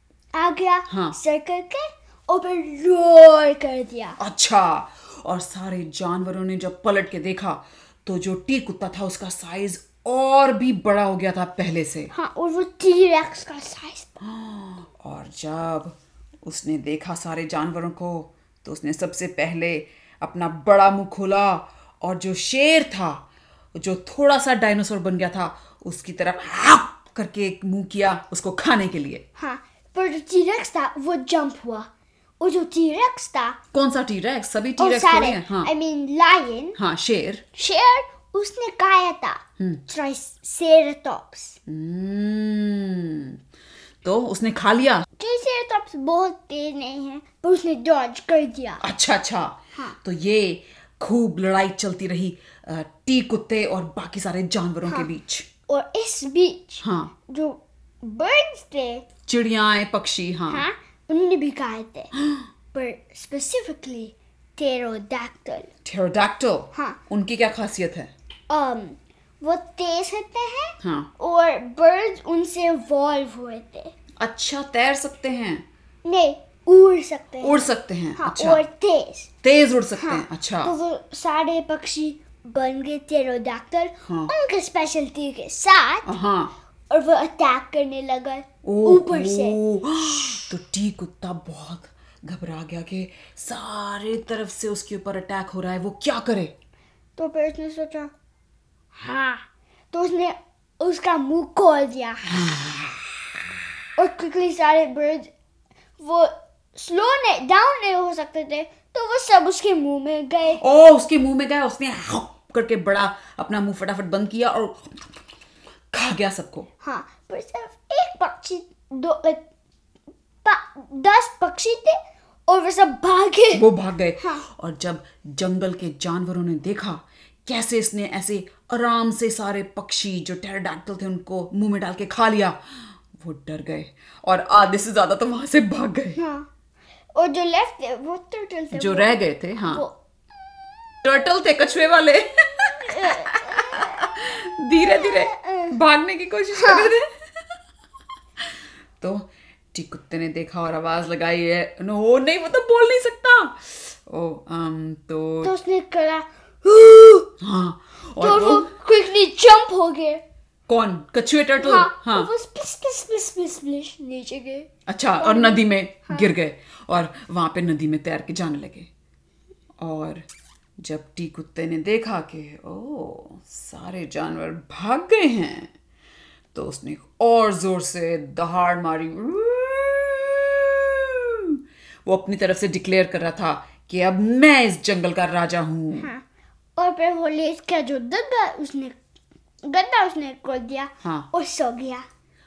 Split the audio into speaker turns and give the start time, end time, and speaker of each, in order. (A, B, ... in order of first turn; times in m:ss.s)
0:00.3-0:04.2 A
0:00.9-0:01.2 B
0:04.2-0:12.1 B
0:12.1-0:14.1 A
0:14.2-0:23.2 B
0:23.8-0:29.2 B
0:29.4-0:31.9 A
0:32.4-0:33.6 A
0:33.7-0:35.7 B
0:34.8-0:36.8 A
0:36.8-0:37.4 B
0:37.5-0:41.6 A
0:41.7-0:43.4 B
0:44.0-0:45.0 B
0:45.2-0:48.8 A
0:48.8-0:55.5 B
0:55.7-0:59.0 A
0:56.8-0:57.1 B
0:59.3-1:00.6 B
1:00.5-1:02.1 A
1:02.7-1:05.7 A
1:05.8-1:08.1 B
1:08.5-1:13.9 A
1:10.8-1:11.1 B
1:14.2-1:15.6 B
1:16.0-1:19.3 A
1:17.4-1:18.6 B
1:19.4-1:20.7 B
1:20.0-1:26.1 A
1:24.0-1:24.3 B
1:26.0-1:26.5 B
1:26.9-1:29.6 A
1:28.6-1:36.5 B
1:37.2-1:38.1 A
1:38.9-1:42.5 A
1:42.4-1:43.1 B
1:44.0-1:45.3 A
1:46.0-1:50.6 A
1:50.6-1:55.1 B
1:55.9-1:56.7 B
1:56.8-1:59.4 A
2:00.4-2:03.6 A
2:03.5-2:12.6 B
2:04.2-2:04.4 A
2:13.1-2:16.2 B
2:16.2-2:16.5 A
2:17.1-2:19.9 A
2:18.8-2:19.8 B
2:21.0-2:27.1 B
2:22.8-2:24.1 A
2:24.8-2:25.7 A
2:26.6-2:26.9 A
2:29.0-2:35.5 B
2:35.4-2:37.3 A
2:37.4-2:38.7 B
2:38.2-2:40.2 A
2:40.7-2:42.3 B
2:41.6-2:44.7 A
2:44.9-2:48.9 B
2:45.2-2:46.3 A
2:49.8-2:50.2 B
2:50.8-2:55.7 B
2:56.5-3:06.1 B
3:06.0-3:06.2 A
3:06.8-3:09.0 A
3:09.6-3:12.0 A